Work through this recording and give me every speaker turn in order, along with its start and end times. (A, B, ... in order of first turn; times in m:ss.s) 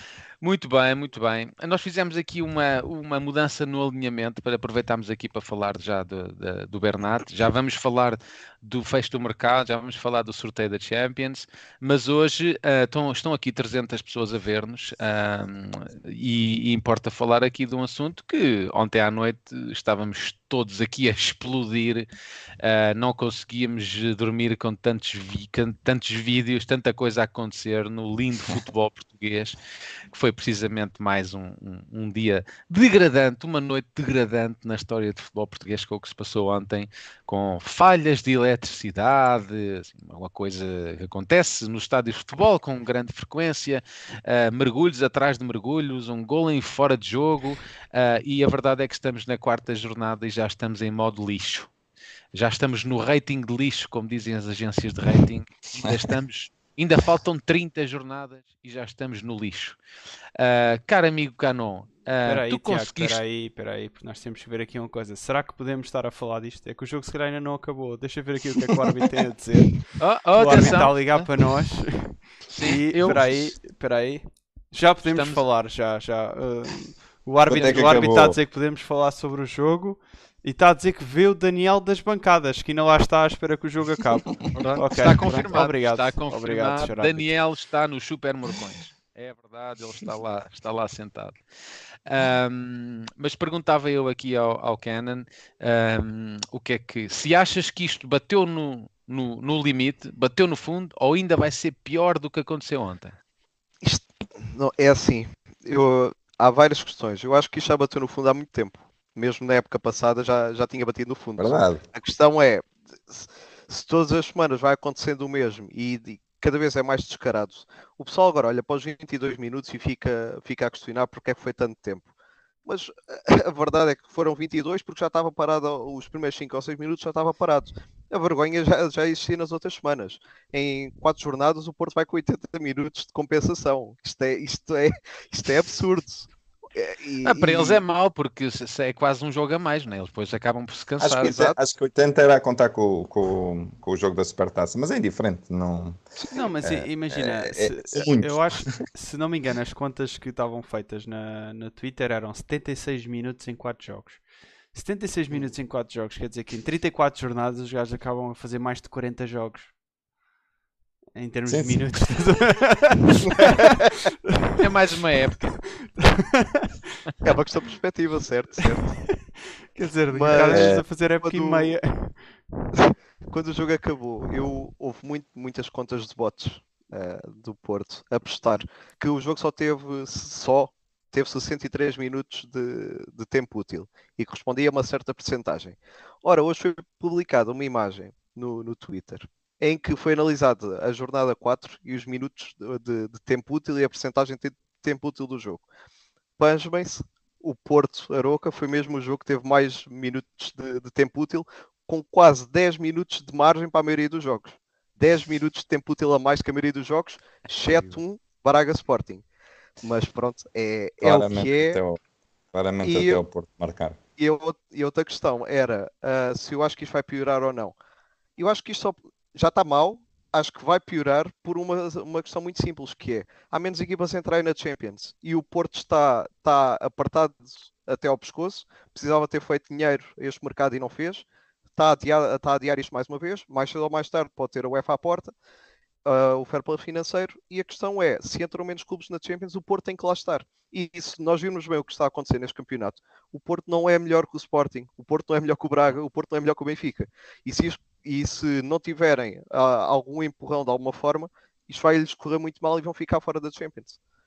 0:00.4-0:22.1 A
0:22.6-0:29.6 A
0:30.1-0:51.7 A
0:52.3-0:59.8 A
1:00.4-1:03.2 A
1:02.2-1:27.3 B
1:10.0-1:11.3 A
1:12.5-1:13.3 A
1:15.0-1:15.4 A
1:17.5-1:18.4 C
1:24.6-1:31.4 A
1:32.1-1:43.1 A
1:43.8-2:02.1 D
1:51.4-1:51.8 C
2:02.7-2:17.8 D
2:17.2-2:21.4 A
2:21.0-2:26.0 C
2:21.2-2:21.6 D
2:26.3-2:34.2 B
2:26.6-2:28.7 C
2:34.7-2:39.7 B
2:41.2-2:43.8 B
2:41.5-2:41.8 C
2:44.6-2:45.6 A
2:45.8-2:46.8 B
2:47.2-2:49.0 D
2:48.9-2:52.6 B
2:50.1-2:51.8 D
2:50.5-2:50.8 C
2:52.7-3:15.6 D
3:16.4-3:29.2 D
3:29.8-3:31.8 D
3:31.0-3:32.0 C
3:32.5-3:34.0 C
3:32.8-3:33.2 D
3:34.2-3:37.8 D
3:38.4-3:51.2 D
3:51.8-3:55.3 D
3:56.0-4:14.0 D